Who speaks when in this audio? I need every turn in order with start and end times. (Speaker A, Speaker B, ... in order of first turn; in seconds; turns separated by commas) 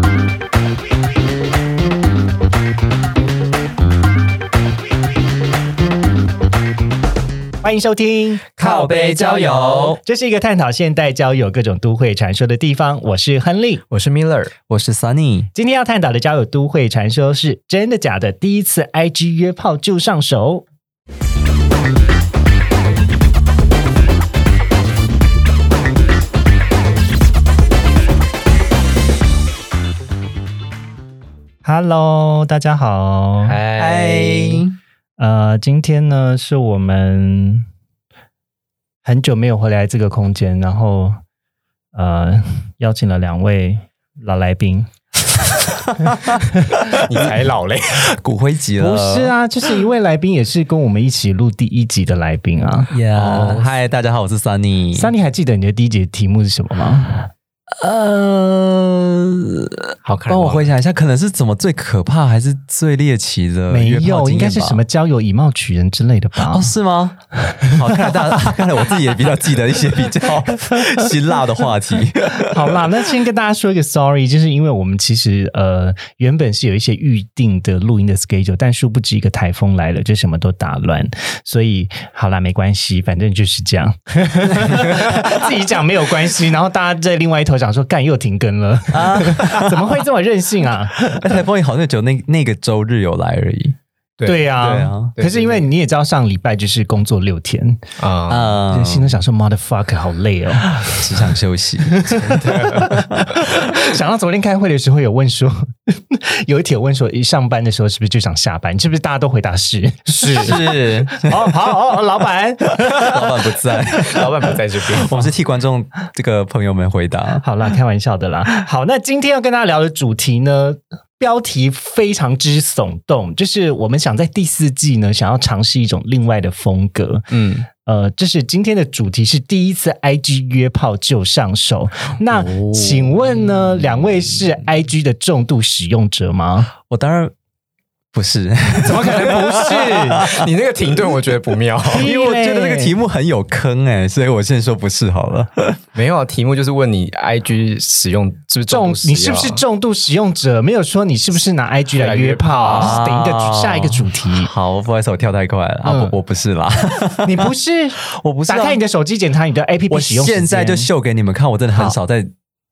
Speaker A: 7.6-13.8, Speaker B: 8.6-10.0, Speaker C: 13.9-14.5, Speaker B: 14.7-15.5, Speaker A: 15.5-20.6, Speaker A: 31.6-33.6, Speaker C: 33.5-34.6, Speaker B: 33.8-34.8, Speaker A: 35.2-37.7, Speaker A: 39.0-41.2, Speaker A: 41.9-44.9, Speaker A: 46.0-47.0, Speaker C: 47.0-48.2, Speaker B: 48.0-49.4, Speaker A: 48.8-52.9, Speaker B: 52.9-55.1, Speaker C: 53.1-53.7, Speaker A: 55.0-57.2, Speaker B: 57.7-64.8, Speaker C: 60.0-60.7, Speaker A: 63.7-66.7, Speaker B: 66.5-73.0, Speaker A: 67.5-68.6, Speaker A: 72.4-91.4, Speaker B: 88.9-90.0, Speaker B: 91.1-93.8, Speaker C: 94.2-95.7, Speaker A: 94.2-97.8, Speaker B: 94.6-95.1, Speaker C: 98.0-98.5, Speaker B: 98.3-99.2, Speaker A: 98.7-101.1, Speaker B: 100.8-103.4, Speaker A: 101.9-113.5, Speaker C: 102.3-102.9, Speaker B: 110.3-111.7, Speaker B: 112.8-117.5, Speaker C: 113.9-115.3, Speaker A: 117.4-136.7, Speaker C: 127.3-127.7, Speaker B: 132.3-134.4, Speaker B: 136.9-137.3, Speaker B: 138.1-140.5, Speaker A: 138.8-140.3, Speaker C: 139.2-142.1, Speaker A: 141.9-142.9, Speaker B: 141.9-145.8, Speaker C: 145.9-149.6, Speaker A: 148.7-154.5, Speaker C: 152.0-153.0, Speaker B: 152.7-158.8, Speaker A: 155.8-156.2, Speaker A: 157.2-160.9, Speaker B: 159.9-162.3